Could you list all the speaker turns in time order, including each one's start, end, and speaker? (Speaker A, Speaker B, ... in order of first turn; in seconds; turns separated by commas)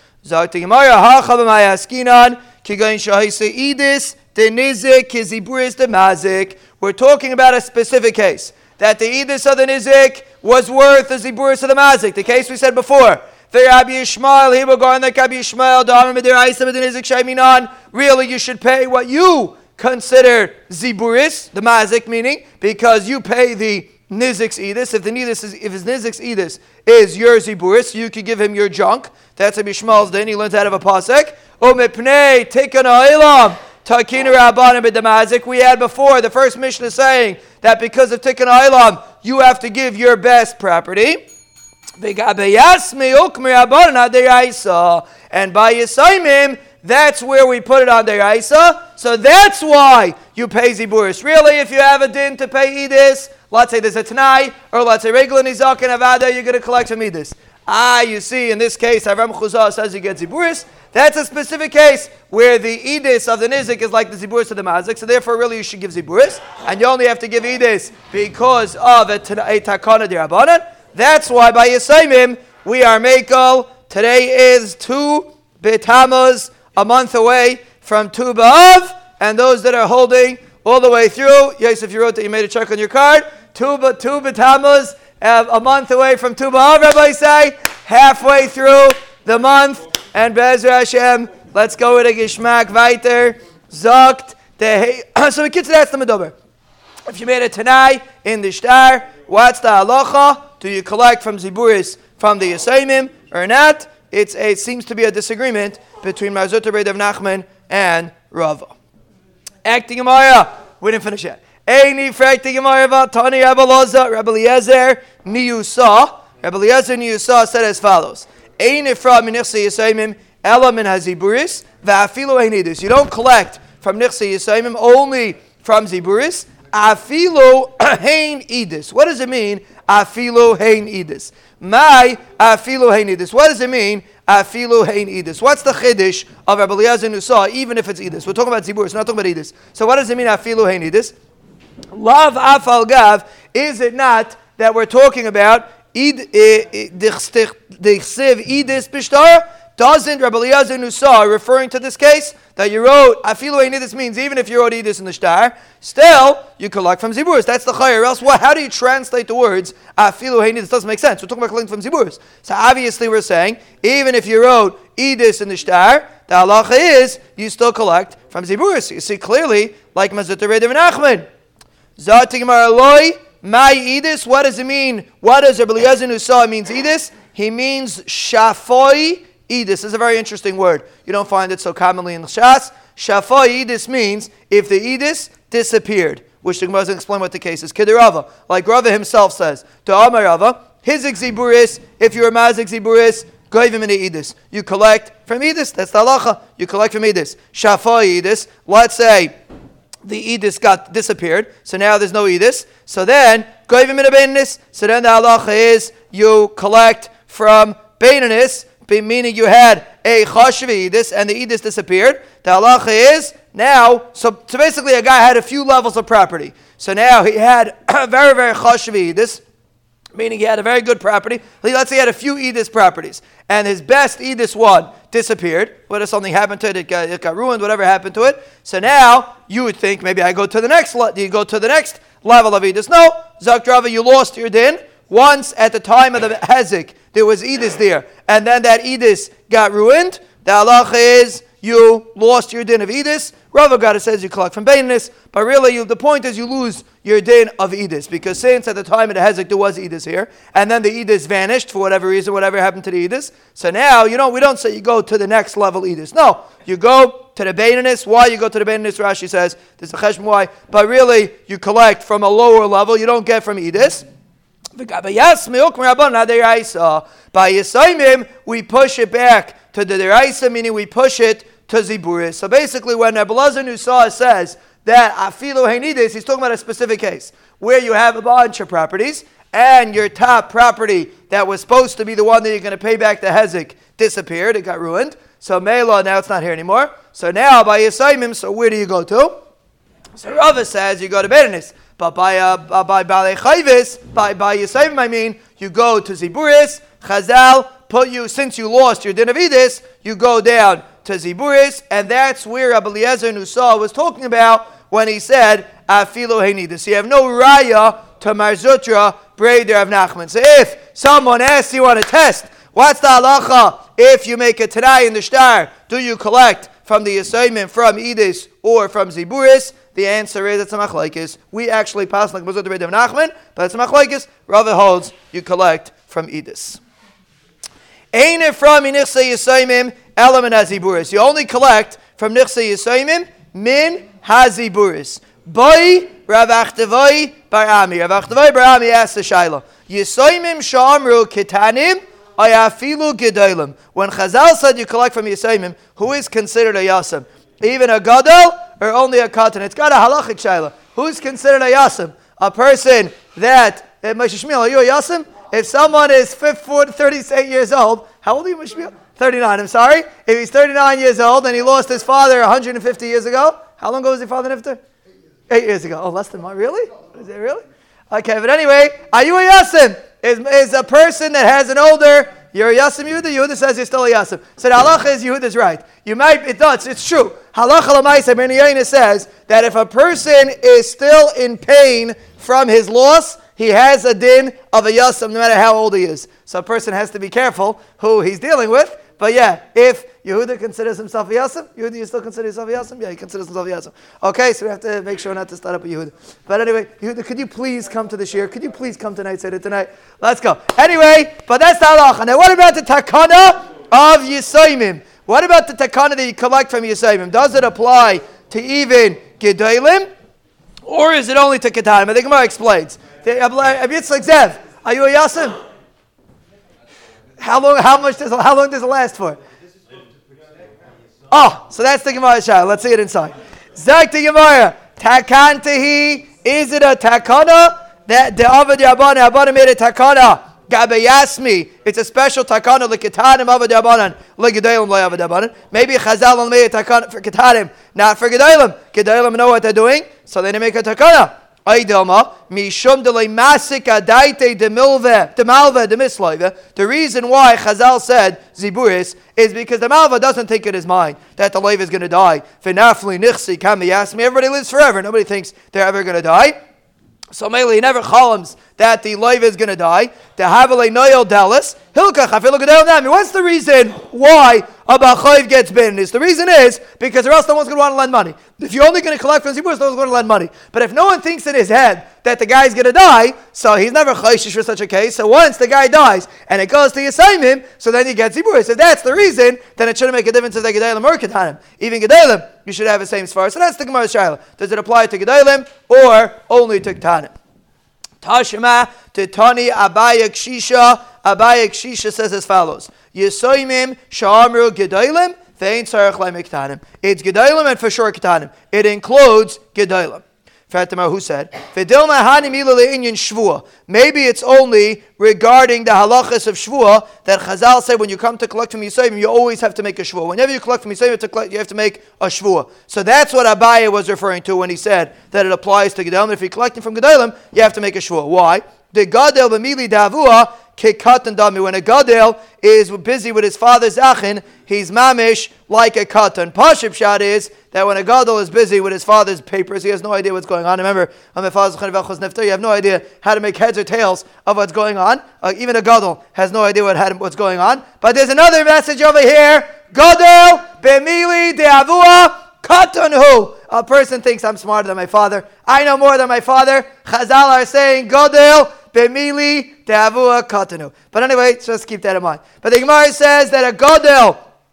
Speaker A: 0.2-41.2, Speaker A: 42.0-96.3, Speaker A: 97.1-108.7, Speaker A: 109.6-141.1, Speaker A: 141.9-171.2, Speaker A: 172.0-199.3, Speaker A: 200.0-219.4, Speaker A: 220.1-264.0, Speaker A: 264.8-289.3, Speaker A: 290.2-326.8, Speaker A: 328.1-364.8, Speaker A: 365.5-410.1, Speaker A: 410.9-415.6, Speaker A: 417.4-419.4, Speaker A: 421.3-456.5, Speaker A: 457.3-487.3, Speaker A: 488.2-554.4